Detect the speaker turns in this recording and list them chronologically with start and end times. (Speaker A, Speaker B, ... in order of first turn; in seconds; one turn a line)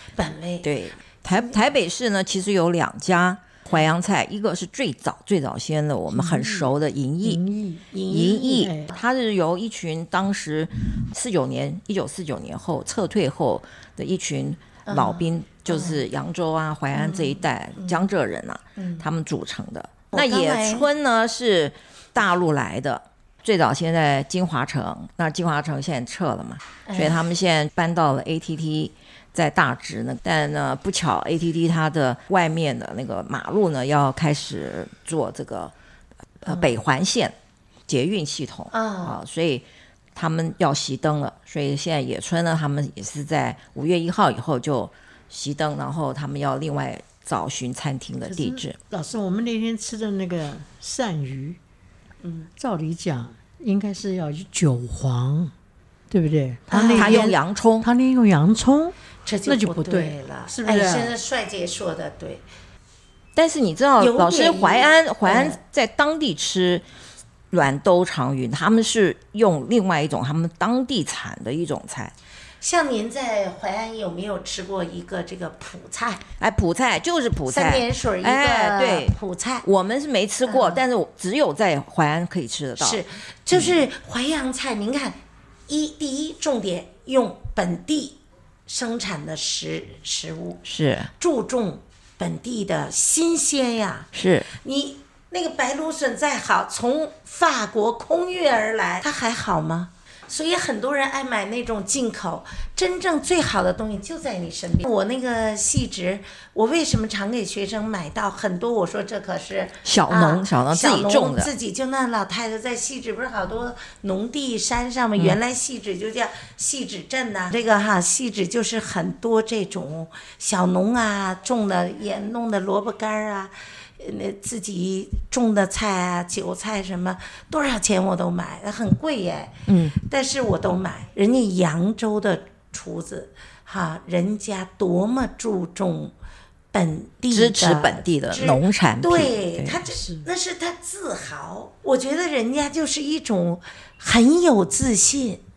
Speaker A: 0.1-0.7
Speaker B: 0.6-7.4
Speaker A: 1.3-1.6
Speaker C: 6.1-7.8
Speaker A: 7.9-9.0
Speaker B: 8.1-35.7
Speaker C: 8.4-8.9
Speaker A: 14.8-16.0
Speaker A: 16.9-18.0
Speaker A: 18.8-19.0
Speaker A: 20.1-20.9
Speaker A: 26.9-27.2
Speaker B: 36.4-37.3
Speaker B: 37.9-48.8
Speaker A: 38.7-39.2
Speaker C: 48.3-51.6
Speaker A: 52.2-52.5
Speaker C: 52.6-55.5
Speaker C: 56.1-58.9
Speaker A: 56.7-57.3
Speaker B: 56.7-57.9
Speaker A: 59.2-62.4
Speaker C: 59.5-61.1
Speaker B: 63.4-66.8
Speaker A: 64.0-65.6
Speaker B: 67.5-72.1
Speaker A: 72.6-76.2
Speaker B: 76.4-83.7
Speaker A: 77.5-79.7
Speaker A: 80.4-80.8
Speaker A: 82.8-90.6
Speaker B: 90.7-91.1
Speaker A: 91.2-136.1
Speaker B: 94.1-94.5
Speaker B: 109.8-111.5
Speaker B: 129.7-129.9
Speaker A: 136.7-145.4
Speaker B: 137.3-139.8
Speaker C: 139.9-140.3